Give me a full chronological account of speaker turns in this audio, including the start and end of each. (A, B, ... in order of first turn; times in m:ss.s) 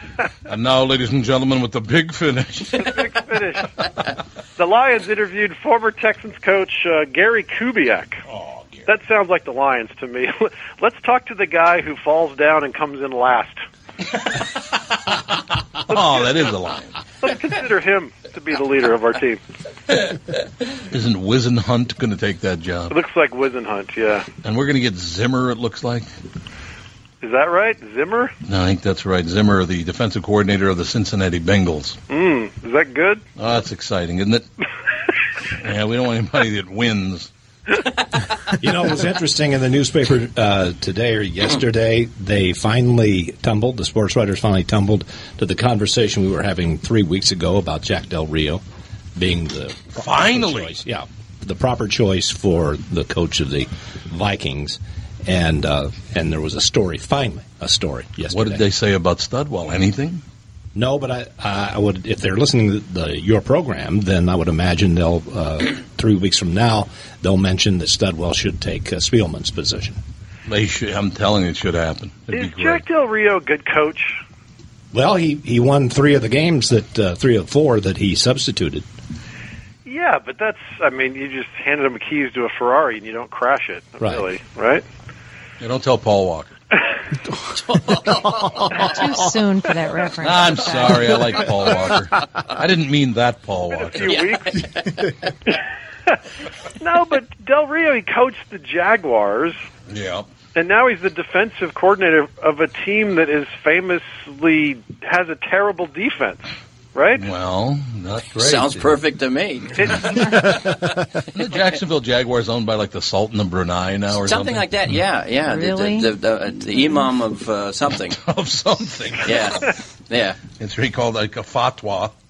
0:00.5-0:02.9 A
0:02.8-0:03.6 B
0:04.6-0:08.2 B
0:08.3-0:08.9 A
0:08.9-0:13.6 B
0:15.9-0:17.0 A
0:15.9-0:16.3 B
0:17.2-0:19.4 B
0:20.9-0:22.9 A
0:22.9-0:24.3 B
0:24.4-0:26.1 A
0:27.2-0:28.3 B
0:28.4-0:32.0 A
0:32.1-0:33.2 B
0:33.4-0:34.4 A
0:35.6-0:37.3 A
0:38.6-0:48.6 C
0:49.2-0:58.6 C
0:49.9-0:50.8 A
0:58.3-1:00.2 A
1:00.7-1:10.0 C
1:10.4-1:12.8 A
1:12.3-1:14.2 B
1:14.9-1:18.8 C
1:19.8-1:24.8 B
1:25.6-1:26.5 A
1:27.5-1:29.2 D
1:28.7-1:31.5 E
1:30.2-1:34.2 A
1:32.2-1:32.5 D
1:33.7-1:34.5 B
1:34.0-1:35.3 D
1:36.8-1:39.6 B
1:39.9-1:40.3 A
1:40.5-1:46.4 B
1:46.9-1:47.2 B
1:47.2-1:48.9 A
1:48.4-1:50.0 D
1:49.8-1:50.1 B
1:51.3-1:54.7 A
1:54.2-1:58.2 D
1:55.4-1:56.1 E
1:58.1-1:59.7 A
1:59.2-2:00.4 D
2:00.6-2:02.1 A